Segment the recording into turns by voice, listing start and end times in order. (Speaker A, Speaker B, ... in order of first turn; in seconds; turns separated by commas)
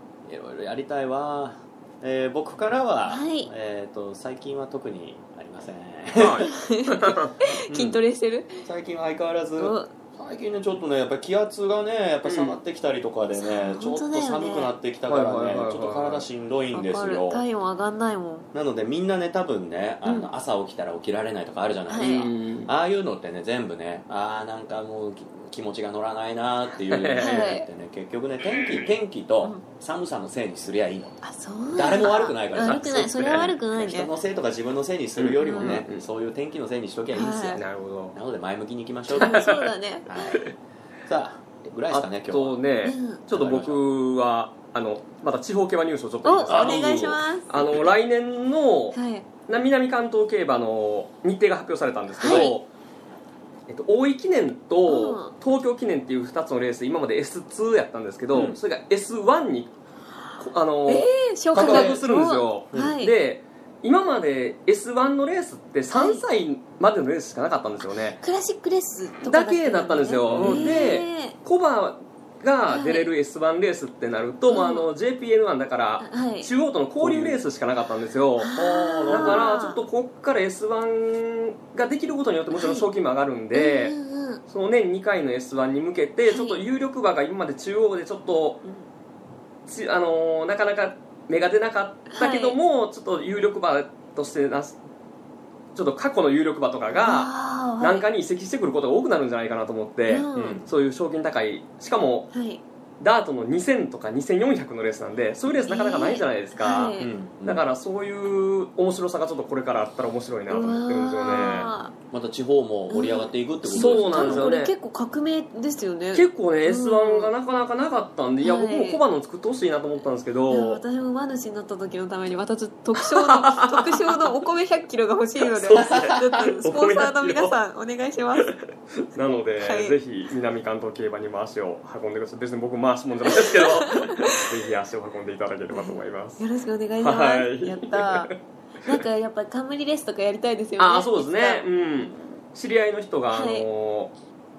Speaker A: 0.3-6.5, Speaker B: 3.1-3.5, Speaker C: 6.2-7.3, Speaker B: 6.4-8.7, Speaker A: 7.7-8.0, Speaker A: 8.6-17.4, Speaker B: 9.6-9.9, Speaker C: 12.2-12.6, Speaker B: 13.3-14.8, Speaker C: 15.1-16.2, Speaker B: 16.7-18.5, Speaker A: 18.5-31.2, Speaker B: 20.1-20.3, Speaker B: 21.9-22.3, Speaker C: 22.0-22.7, Speaker C: 26.8-27.6, Speaker B: 27.2-27.7, Speaker B: 31.2-34.1, Speaker A: 31.7-39.4, Speaker C: 32.0-33.5, Speaker C: 35.2-36.0, Speaker B: 35.4-35.8, Speaker B: 37.1-37.7, Speaker C: 37.5-38.2, Speaker B: 39.1-40.5, Speaker C: 39.2-39.7, Speaker A: 40.1-40.5, Speaker A: 41.1-42.7, Speaker C: 41.9-52.7, Speaker B: 42.8-43.3, Speaker A: 43.3-43.8, Speaker B: 46.2-47.5, Speaker A: 46.5-46.9, Speaker B: 48.9-49.3, Speaker B: 52.2-52.6, Speaker C: 53.7-59.7, Speaker B: 54.9-55.3, Speaker A: 58.3-58.6, Speaker C: 60.4-68.2, Speaker B: 60.9-63.1, Speaker A: 61.5-62.1, Speaker A: 62.7-63.0, Speaker B: 65.9-66.2, Speaker B: 68.2-71.4, Speaker C: 69.2-78.5, Speaker A: 70.3-70.8, Speaker B: 72.7-73.1, Speaker B: 74.5-74.9, Speaker B: 76.0-76.5, Speaker A: 77.0-77.4, Speaker B: 78.4-79.8, Speaker A: 78.5-79.4, Speaker C: 79.1-88.6, Speaker B: 82.5-82.9, Speaker B: 83.5-84.4, Speaker B: 86.3-86.6, Speaker C: 89.7-94.8, Speaker B: 92.1-92.6, Speaker C: 95.8-102.3, Speaker B: 97.0-98.0, Speaker B: 100.1-100.6, Speaker A: 100.3-100.7, Speaker B: 102.3-102.6, Speaker C: 103.0-111.7, Speaker B: 105.5-107.1, Speaker A: 107.0-107.7, Speaker B: 110.5-111.9, Speaker A: 112.1-114.5, Speaker B: 112.9-117.3, Speaker C: 113.7-114.7, Speaker C: 116.1-120.8, Speaker B: 118.4-119.0, Speaker B: 120.5-128.5, Speaker C: 123.0-124.3, Speaker C: 125.4-127.6, Speaker C: 128.3-136.4, Speaker B: 129.6-130.0, Speaker B: 133.3-134.6, Speaker B: 135.7-138.3, Speaker C: 137.0-138.3, Speaker B: 138.8-141.7, Speaker C: 140.8-144.1, Speaker B: 143.3-143.7